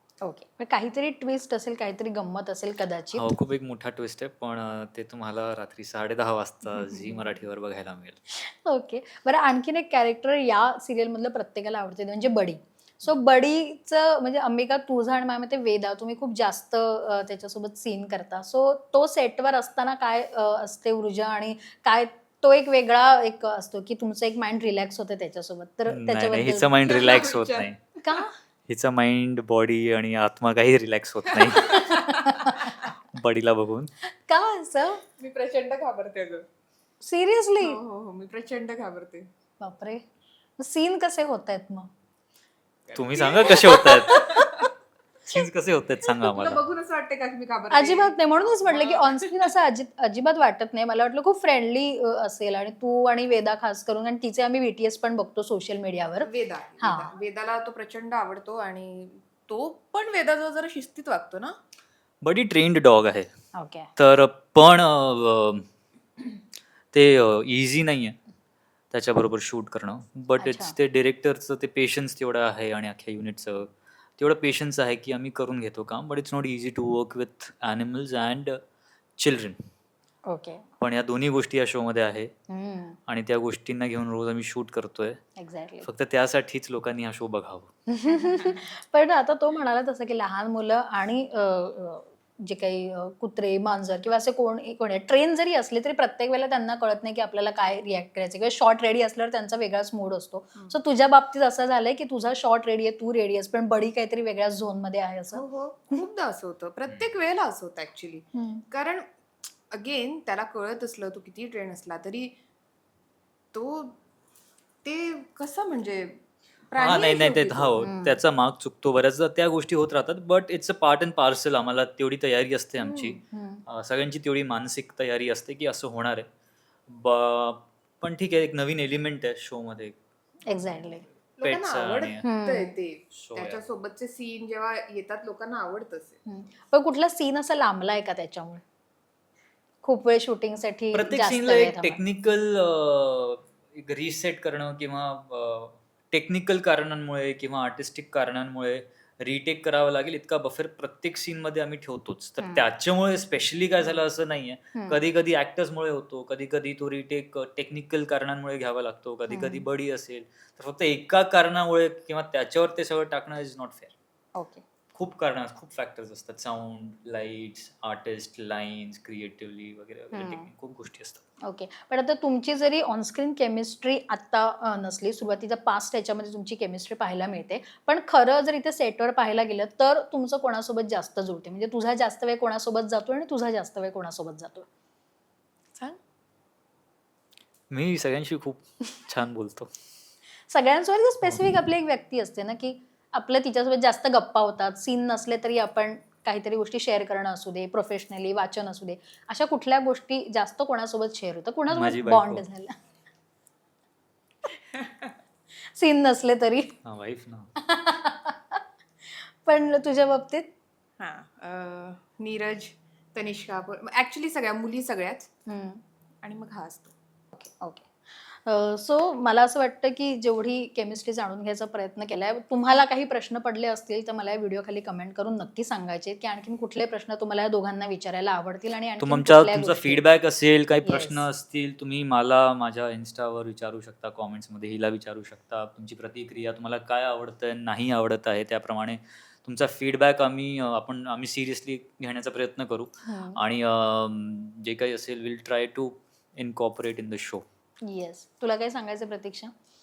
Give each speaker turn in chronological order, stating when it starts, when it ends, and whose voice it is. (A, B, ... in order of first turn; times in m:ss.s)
0:00.2-0:03.3 A
0:03.1-0:08.2 B
0:06.7-0:07.3 A
0:08.3-0:26.8 A
0:25.9-0:27.8 B
0:26.8-0:27.7 C
0:28.0-0:28.4 A
0:28.7-0:31.8 B
0:31.3-0:32.6 C
0:31.7-0:32.8 A
0:33.1-0:33.9 B
0:34.1-0:35.0 A
0:35.2-0:36.4 C
0:37.0-0:37.8 A
0:37.6-0:39.3 C
0:39.6-0:40.0 A
0:40.6-0:41.9 A
0:42.9-0:44.7 C
0:42.9-0:44.3 B
0:43.8-0:44.6 A
0:45.3-0:46.6 B
0:46.1-0:49.5 C
0:47.7-0:56.3 A
0:56.2-1:01.6 C
0:56.8-0:57.1 A
1:02.2-1:03.3 B
1:03.6-1:03.9 A
1:04.0-1:05.6 B
1:06.9-1:08.2 B
1:08.9-1:18.6 B
1:10.4-1:10.7 A
1:19.2-1:19.6 B
1:20.3-1:20.6 A
1:20.8-1:22.3 B
1:22.5-1:23.0 A
1:23.1-1:25.2 B
1:25.4-1:25.9 A
1:25.8-1:27.7 B
1:27.9-1:45.4 A
1:45.3-1:49.0 C
1:48.3-1:48.6 A
1:49.7-1:52.4 C
1:53.5-1:54.0 C
1:54.8-1:57.8 C
1:56.8-2:06.3 B
1:57.8-1:58.2 A
2:02.8-2:03.2 C
2:03.3-2:03.6 A
2:06.9-2:10.0 B
2:10.5-2:11.0 A
2:11.4-2:16.2 C
2:11.4-2:12.2 B
2:12.2-2:12.7 A
2:13.1-2:13.6 B
2:16.3-2:18.6 A
2:19.8-2:22.0 A
2:20.9-2:43.9 B
2:32.4-2:32.7 A
2:34.7-2:35.0 A
2:39.3-2:39.7 A
2:44.4-2:44.6 A
2:44.9-2:51.2 B
2:50.1-2:50.5 A
2:51.4-3:04.7 A
3:07.7-3:09.7 B
3:10.5-3:22.8 A
3:11.2-3:11.5 B
3:21.7-3:22.4 B
3:24.7-3:25.1 C
3:25.7-3:26.8 A
3:26.8-3:27.5 B
3:27.6-3:28.6 A
3:29.1-3:30.5 A
3:31.0-3:35.3 C
3:35.5-3:35.8 A
3:36.2-3:36.9 C
3:37.4-3:50.0 A
3:49.0-4:07.4 B
3:50.8-3:51.3 A
4:03.0-4:03.4 A
4:07.8-4:09.5 A